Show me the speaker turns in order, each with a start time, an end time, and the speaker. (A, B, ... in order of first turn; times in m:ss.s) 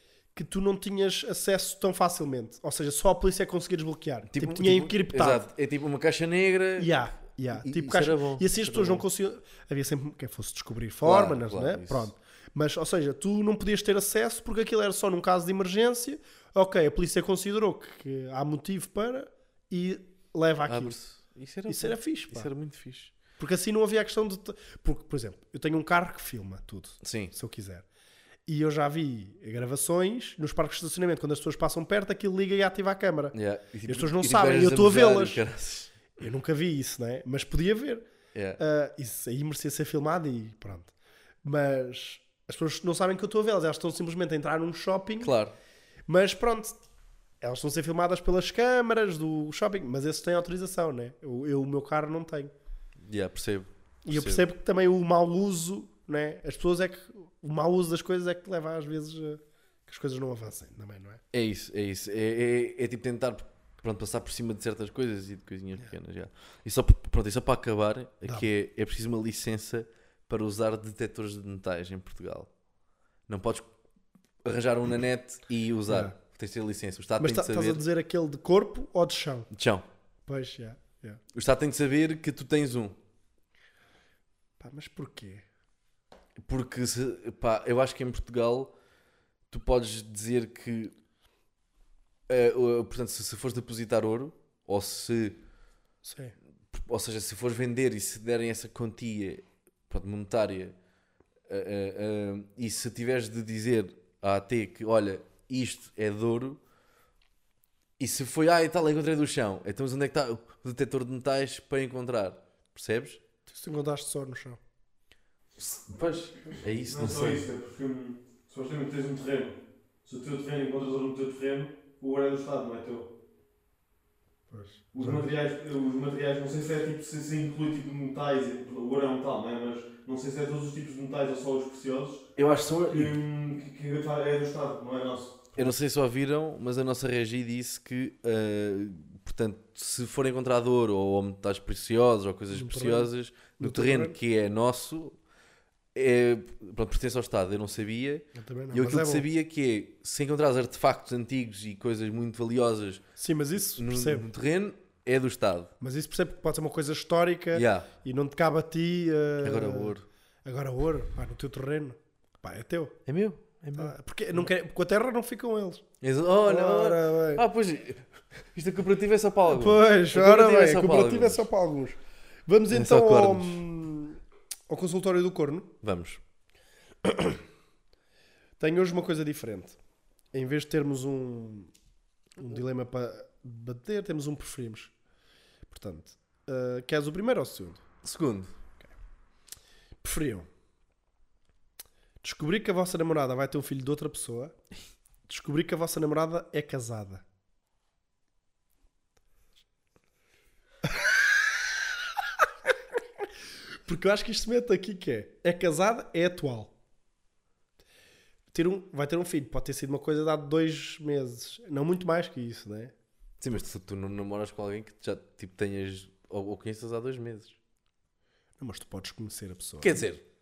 0:00.3-0:05.4 A
0:04.3-0:06.9 B
0:06.8-0:21.0 A
0:07.5-0:09.0 B
0:11.0-0:12.1 B
0:20.7-0:23.1 B
0:21.7-0:22.5 A
0:23.4-0:27.8 A
0:27.0-0:27.3 B
0:28.5-0:33.3 A
0:33.3-0:35.9 B
0:33.8-0:35.4 A
0:36.2-0:38.0 A
0:38.3-0:38.6 B
0:38.6-0:40.9 A
0:41.4-0:45.3 A
0:45.2-0:45.5 B
0:46.1-0:46.8 A
0:47.4-0:52.5 A
0:53.0-0:54.4 B
0:54.0-1:01.2 A
1:01.3-1:12.5 B
1:13.3-1:13.7 B
1:14.4-1:17.8 B
1:15.9-1:16.1 A
1:17.2-1:19.5 A
1:19.5-1:19.8 B
1:20.3-1:21.2 A
1:21.3-1:23.0 B
1:24.6-1:25.4 A
1:26.4-1:28.7 B
1:29.5-1:30.9 B
1:32.3-1:35.4 B
1:36.0-1:36.3 A
1:36.7-1:40.8 B
1:41.5-1:46.6 B
1:48.0-1:53.2 B
1:53.5-1:54.6 A
1:55.6-1:57.4 B
1:56.8-2:03.1 C
2:04.5-2:05.3 A
2:04.9-2:12.3 C
2:12.4-2:13.2 B
2:12.8-2:15.7 C
2:15.5-2:25.2 B
2:22.5-2:24.2 A
2:25.9-2:33.0 B
2:28.3-2:29.2 A
2:33.2-2:34.2 A
2:33.8-2:35.7 B
2:35.8-2:39.9 A
2:37.5-2:37.9 B
2:39.4-2:40.0 B
2:40.4-2:43.0 A
2:43.0-2:44.4 B
2:43.7-2:45.8 A
2:46.0-2:51.5 B
2:46.4-2:47.4 A
2:49.5-2:54.2 A
2:52.7-2:53.6 B
2:54.7-2:55.7 A
2:55.8-2:56.2 B
2:57.0-2:57.4 A
2:58.6-2:59.8 A
3:00.3-3:01.7 A
3:02.4-3:04.9 A
3:05.7-3:07.8 A
3:08.0-3:08.5 B
3:10.0-3:10.5 A
3:12.2-3:14.5 A
3:15.3-3:17.2 A
3:23.8-3:26.7 A
3:28.5-3:32.9 A
3:33.4-3:37.6 B
3:38.6-3:40.0 A
3:39.8-3:40.2 B